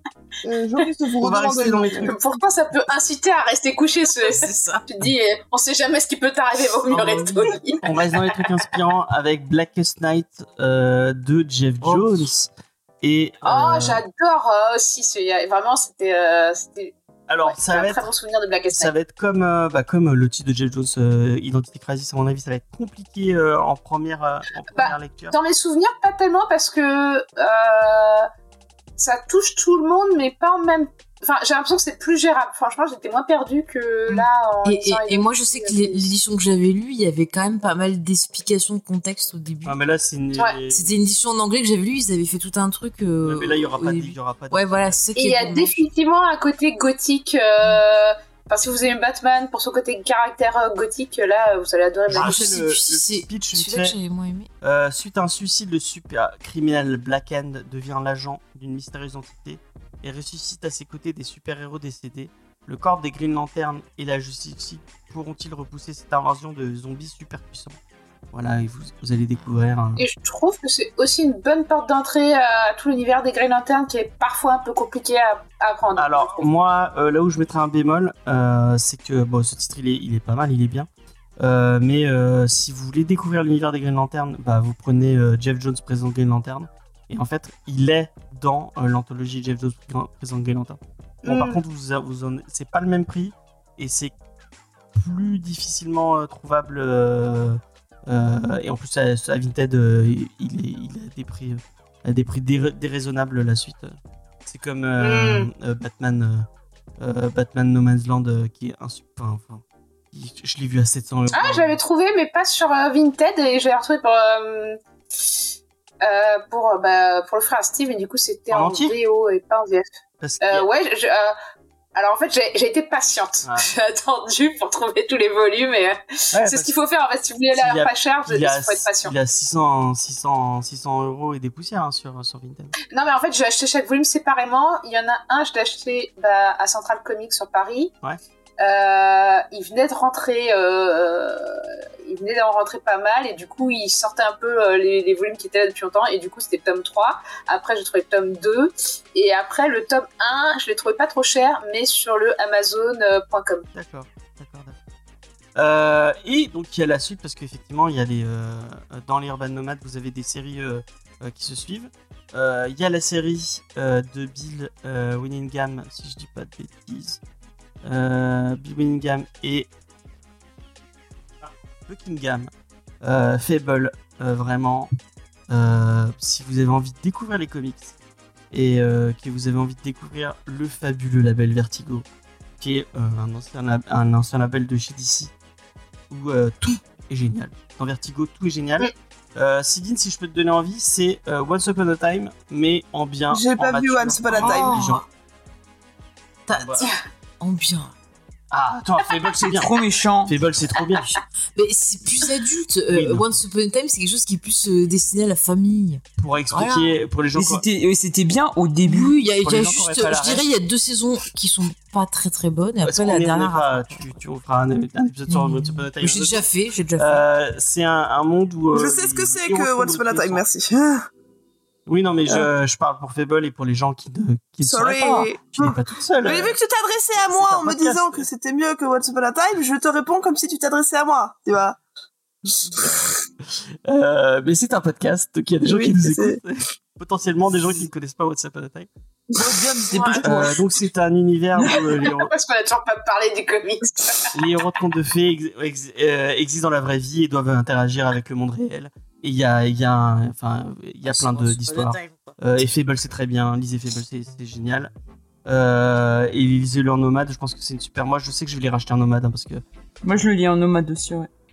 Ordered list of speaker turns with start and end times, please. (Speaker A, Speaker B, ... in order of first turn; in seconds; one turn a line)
Speaker A: 0.4-2.1
Speaker B: 1.2-2.1
Speaker C: 1.9-7.8
Speaker D: 4.3-4.8
Speaker B: 6.9-12.5
Speaker D: 11.8-12.3
Speaker B: 13.0-14.0
Speaker C: 13.4-18.9
Speaker B: 17.3-18.1
Speaker B: 18.7-25.4
Speaker C: 24.7-28.3
Speaker C: 29.0-36.1
Speaker D: 34.6-39.8
Speaker B: 39.6-40.9
Speaker D: 40.7-45.9
Speaker B: 43.2-45.0
Speaker C: 45.1-52.4
Speaker B: 52.1-54.0
Speaker D: 52.1-54.5
Speaker B: 54.6-67.8
Speaker B: 68.3-70.0
Speaker C: 70.0-76.5
Speaker B: 76.0-80.9
Speaker B: 81.4-94.1
Speaker C: 91.2-91.6
Speaker B: 95.0-103.9
Speaker B: 104.5-106.5
Speaker C: 105.0-105.5
Speaker B: 107.0-111.7
Speaker C: 111.3-114.8
Speaker C: 116.0-119.8
Speaker B: 118.5-118.9
Speaker B: 120.2-120.7
Speaker C: 120.4-121.3
Speaker C: 121.9-129.1
Speaker B: 123.4-123.7
Speaker B: 126.3-126.7
Speaker B: 127.5-132.7
Speaker C: 132.9-137.9
Speaker C: 138.6-153.7
Speaker B: 153.7-154.8
Speaker B: 155.6-167.2
Speaker B: 167.8-169.7
Speaker B: 171.4-174.9
Speaker B: 175.5-177.9
Speaker B: 178.5-182.0
Speaker B: 182.6-185.3
Speaker B: 186.1-195.0
Speaker A: 193.3-194.8
Speaker D: 194.3-195.0
Speaker D: 196.5-196.8
Speaker B: 196.6-196.8
Speaker D: 197.4-197.9
Speaker B: 198.5-199.7
Speaker E: 199.5-200.3
Speaker B: 200.2-201.2
Speaker D: 201.2-207.0
Speaker B: 202.9-203.4
Speaker B: 206.2-207.6
Speaker E: 207.3-209.1
Speaker D: 208.8-214.1
Speaker B: 209.3-210.5
Speaker B: 212.8-216.4
Speaker D: 215.3-217.2
Speaker B: 216.9-220.4
Speaker A: 218.7-221.1
Speaker B: 221.9-226.6
Speaker A: 224.6-231.8
Speaker B: 227.1-228.3
Speaker D: 232.6-233.2
Speaker A: 232.8-233.1
Speaker B: 233.4-238.9
Speaker A: 235.6-236.4
Speaker E: 239.4-240.6
Speaker D: 239.9-240.5
Speaker B: 240.2-242.3
Speaker C: 242.1-244.3
Speaker B: 244.3-254.9
Speaker D: 251.0-252.3
Speaker B: 255.4-259.6
Speaker E: 260.0-261.3